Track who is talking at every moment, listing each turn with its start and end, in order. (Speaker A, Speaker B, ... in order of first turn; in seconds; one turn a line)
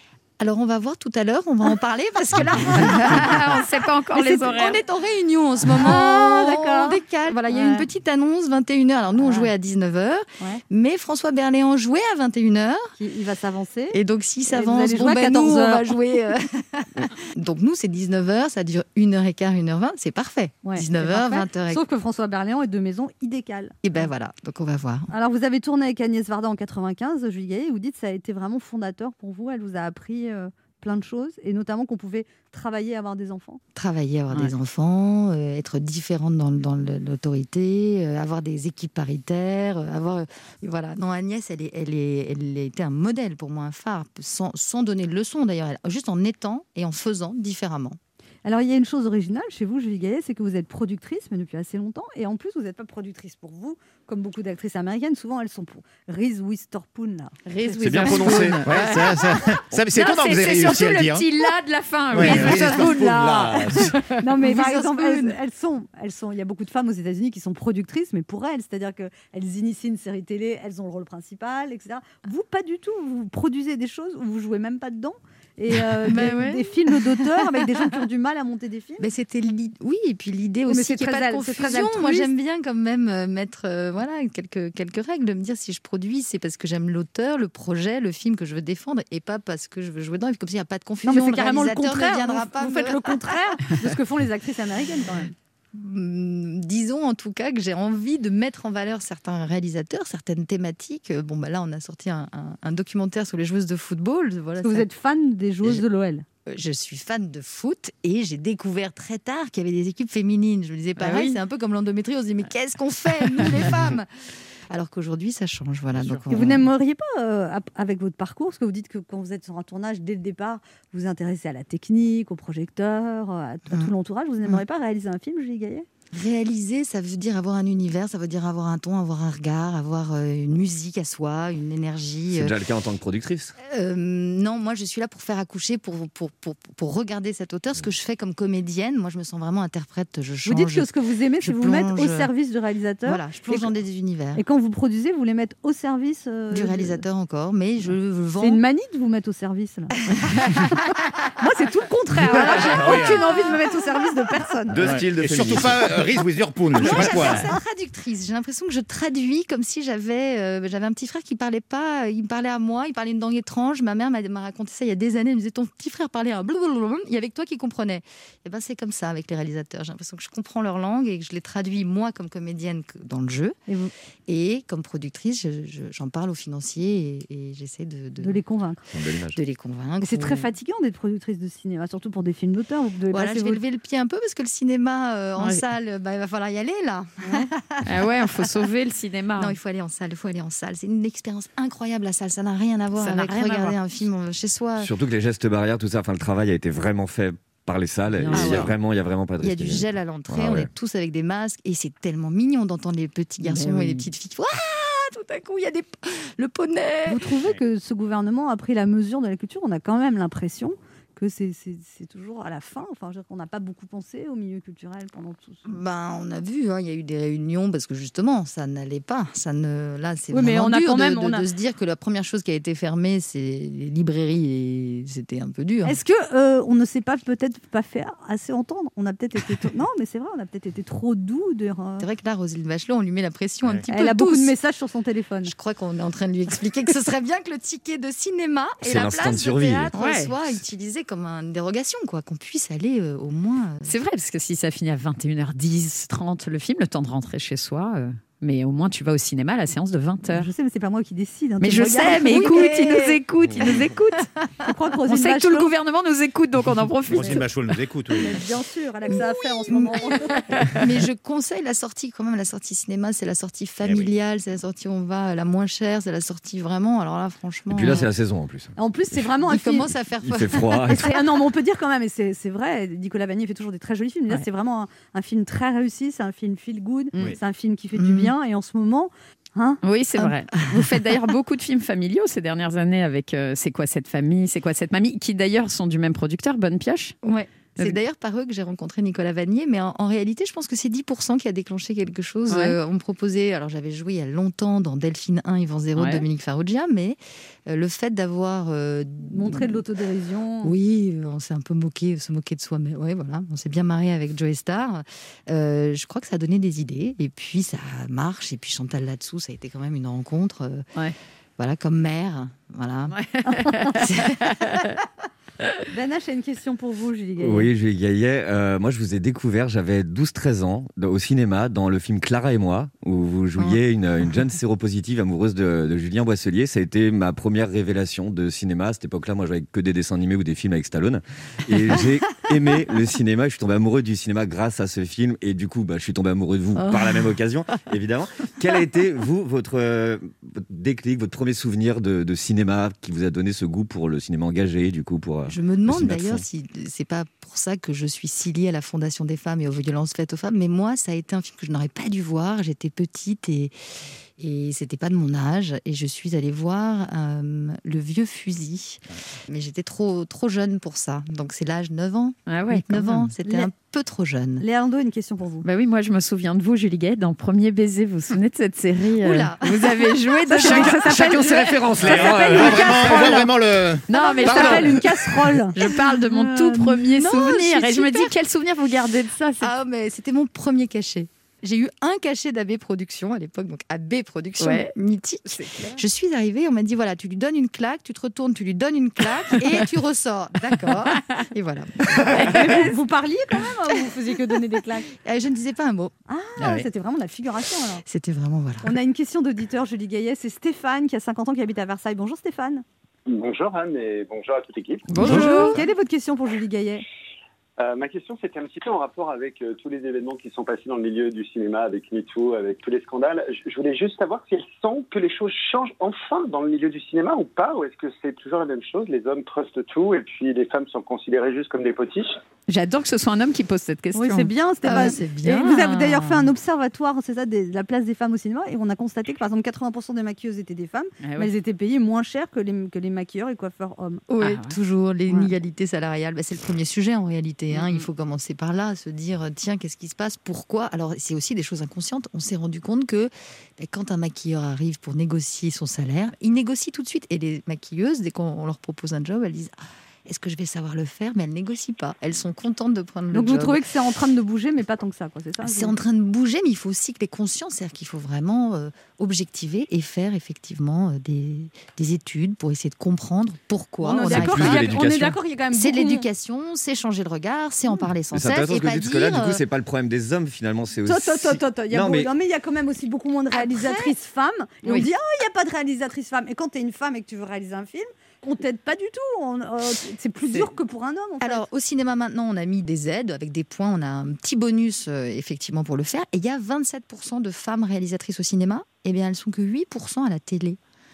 Speaker A: 0.4-12.9
Speaker B: 2.6-4.8
Speaker C: 5.8-7.9
Speaker C: 13.0-16.0
Speaker A: 13.9-21.8
Speaker C: 20.6-23.8
Speaker A: 23.8-25.1
Speaker C: 25.1-33.6
Speaker A: 33.7-48.0
Speaker C: 48.4-57.8
Speaker B: 57.5-63.0
Speaker D: 57.8-58.7
Speaker E: 58.0-61.4
Speaker E: 62.1-63.8
Speaker C: 62.2-79.0
Speaker A: 64.4-65.4
Speaker A: 76.0-77.9
Speaker A: 79.0-93.4
Speaker C: 80.7-82.3
Speaker C: 91.0-95.3
Speaker A: 95.7-104.8
Speaker C: 104.6-106.2
Speaker A: 106.5-114.1
Speaker B: 111.0-111.4
Speaker A: 114.7-116.7
Speaker C: 116.3-125.8
Speaker A: 126.1-132.6
Speaker D: 132.3-133.5
Speaker A: 133.6-142.3
Speaker C: 140.4-143.8
Speaker A: 143.0-144.4
Speaker C: 144.3-147.0
Speaker A: 146.5-148.6
Speaker C: 148.4-150.0
Speaker B: 150.1-150.6
Speaker C: 150.5-154.8
Speaker E: 152.2-153.3
Speaker D: 154.7-156.1
Speaker E: 154.8-157.5
Speaker A: 156.7-173.6
Speaker C: 156.8-157.6
Speaker A: 174.3-178.4
Speaker C: 178.2-178.8
Speaker D: 178.9-179.4
Speaker A: 179.3-180.5
Speaker C: 180.0-183.6
Speaker A: 183.1-188.6
Speaker B: 185.4-185.6
Speaker C: 187.2-187.5
Speaker B: 187.8-189.5
Speaker A: 189.4-194.9
Speaker B: 193.0-193.8
Speaker D: 194.8-200.7
Speaker B: 198.2-198.7
Speaker A: 198.3-198.7
Speaker A: 199.4-207.4
Speaker B: 203.4-204.1
Speaker C: 207.1-215.8
Speaker A: 215.6-226.0
Speaker C: 220.3-221.5
Speaker C: 225.8-232.1
Speaker A: 232.0-234.5
Speaker C: 233.9-235.5
Speaker A: 235.4-243.9
Speaker D: 238.8-239.9
Speaker B: 239.9-240.3
Speaker B: 243.8-250.5
Speaker C: 250.3-252.8
Speaker B: 251.6-254.3
Speaker A: 252.1-254.5
Speaker C: 254.6-255.7
Speaker B: 255.1-257.5
Speaker E: 257.1-258.4
Speaker C: 258.1-260.6
Speaker A: 259.1-268.1
Speaker B: 260.6-260.8
Speaker E: 263.8-264.1
Speaker D: 267.7-269.3
Speaker C: 268.8-269.9
Speaker A: 269.4-270.9
Speaker D: 269.9-271.0
Speaker C: 270.9-279.8
Speaker A: 277.9-278.3
Speaker B: 279.8-287.1
Speaker A: 280.2-281.3
Speaker A: 287.2-299.8
Speaker B: 292.5-292.8
Speaker B: 295.9-296.2
Speaker C: 299.2-300.7
Speaker A: 300.6-310.9
Speaker A: 311.6-313.2
Speaker B: 313.1-314.9
Speaker C: 313.5-313.9
Speaker A: 313.9-315.0
Speaker C: 315.9-317.7
Speaker D: 317.4-346.4
Speaker A: 336.8-337.3
Speaker A: 345.5-353.7
Speaker A: 354.4-364.6
Speaker B: 362.5-363.3
Speaker C: 363.4-363.7
Speaker C: 364.6-365.6
Speaker B: 365.6-373.5
Speaker A: 369.1-371.0
Speaker C: 370.5-373.5
Speaker E: 371.2-375.0
Speaker D: 371.8-372.2
Speaker B: 374.1-379.7
Speaker C: 374.1-375.8
Speaker A: 375.8-378.3
Speaker A: 379.6-392.6
Speaker B: 384.6-384.9
Speaker B: 385.4-386.0
Speaker B: 390.7-391.4
Speaker B: 392.2-392.8
Speaker C: 392.3-395.1
Speaker A: 395.1-396.1
Speaker C: 396.3-398.0
Speaker A: 398.0-399.0
Speaker C: 398.8-402.8
Speaker F: 403.3-405.1
Speaker B: 405.1-405.8
Speaker C: 405.2-407.0
Speaker A: 405.3-405.7
Speaker F: 407.8-422.4
Speaker B: 422.7-424.5
Speaker C: 424.1-434.2
Speaker A: 424.8-426.5
Speaker B: 431.2-431.5
Speaker A: 434.3-449.7
Speaker B: 434.4-434.8
Speaker B: 437.7-438.1
Speaker A: 450.2-453.8
Speaker C: 453.3-456.0
Speaker A: 455.6-465.0
Speaker C: 464.0-466.3
Speaker D: 464.2-465.0
Speaker A: 465.7-469.6
Speaker D: 468.3-472.3
Speaker C: 471.1-481.6
Speaker A: 473.9-474.1
Speaker A: 481.4-490.8